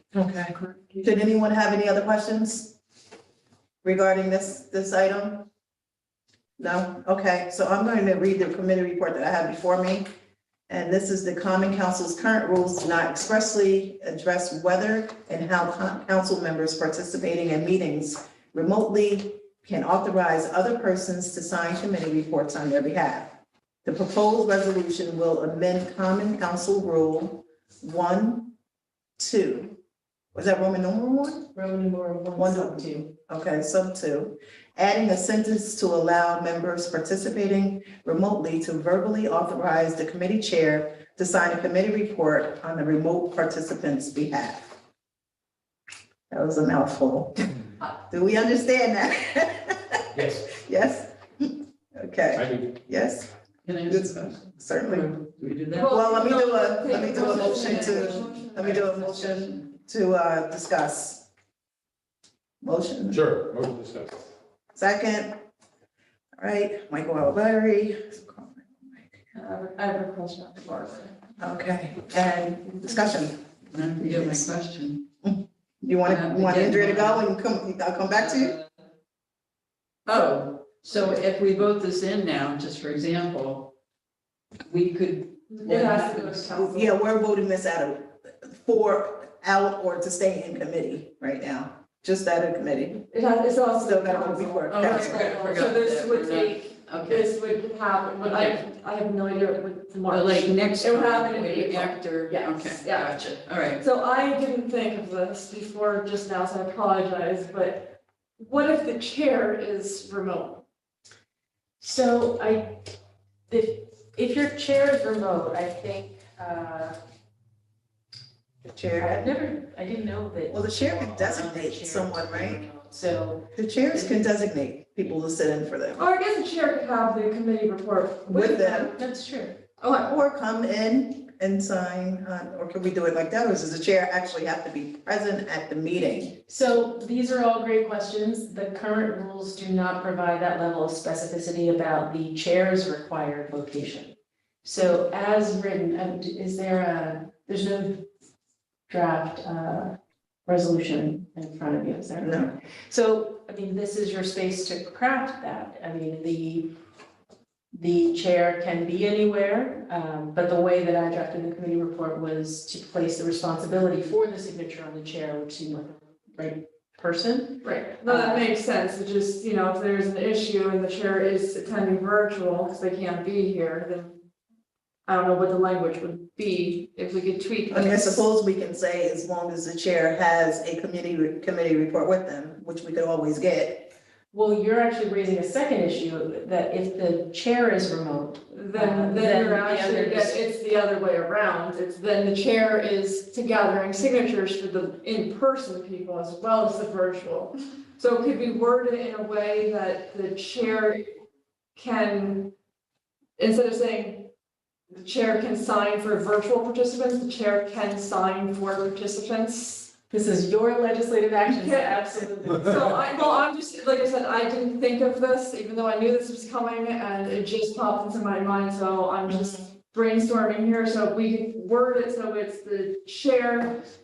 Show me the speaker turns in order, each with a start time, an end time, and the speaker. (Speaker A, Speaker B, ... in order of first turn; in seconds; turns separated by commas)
Speaker A: 0.1-2.7, Speaker B: 0.5-1.2, Speaker A: 3.8-5.4, Speaker A: 6.6-10.1, Speaker A: 10.7-23.3, Speaker A: 23.8-28.5, Speaker A: 29.2-29.7, Speaker A: 30.3-31.5, Speaker C: 31.5-33.1, Speaker A: 32.4-44.7, Speaker A: 46.3-47.4, Speaker A: 48.1-53.3, Speaker D: 50.1-50.5, Speaker D: 52.3-52.7, Speaker E: 53.6-55.9, Speaker A: 53.9-55.1, Speaker B: 55.7-58.9, Speaker A: 55.9-61.2, Speaker E: 57.2-59.6, Speaker A: 62.6-63.2, Speaker D: 63.1-64.2, Speaker A: 64.7-65.4, Speaker A: 66.4-69.2, Speaker B: 69.3-71.2, Speaker A: 71.4-73.3, Speaker E: 73.7-75.0, Speaker A: 74.0-74.5, Speaker A: 75.2-78.5, Speaker E: 76.0-77.2, Speaker E: 80.1-83.7, Speaker E: 84.7-86.3, Speaker B: 85.5-86.9, Speaker A: 86.4-93.0, Speaker B: 93.1-110.6, Speaker A: 93.8-95.3, Speaker E: 94.7-97.3, Speaker E: 98.2-98.6, Speaker E: 100.1-103.8, Speaker C: 111.8-112.9, Speaker C: 113.5-117.0, Speaker A: 118.6-119.3, Speaker C: 119.0-123.5, Speaker A: 120.5-122.6, Speaker A: 123.5-126.0, Speaker B: 126.0-128.9, Speaker A: 128.3-128.9, Speaker C: 128.9-129.6, Speaker B: 129.8-130.1, Speaker A: 130.0-136.3, Speaker C: 136.5-148.1, Speaker C: 148.9-156.7, Speaker A: 152.2-152.5, Speaker C: 157.7-168.4, Speaker B: 167.6-174.2, Speaker B: 175.1-178.2, Speaker A: 177.7-183.9, Speaker C: 184.3-190.4, Speaker B: 188.5-201.1, Speaker B: 201.8-202.5, Speaker B: 203.4-204.3, Speaker B: 204.9-209.9, Speaker C: 210.1-212.9, Speaker B: 211.5-223.8, Speaker A: 219.3-219.6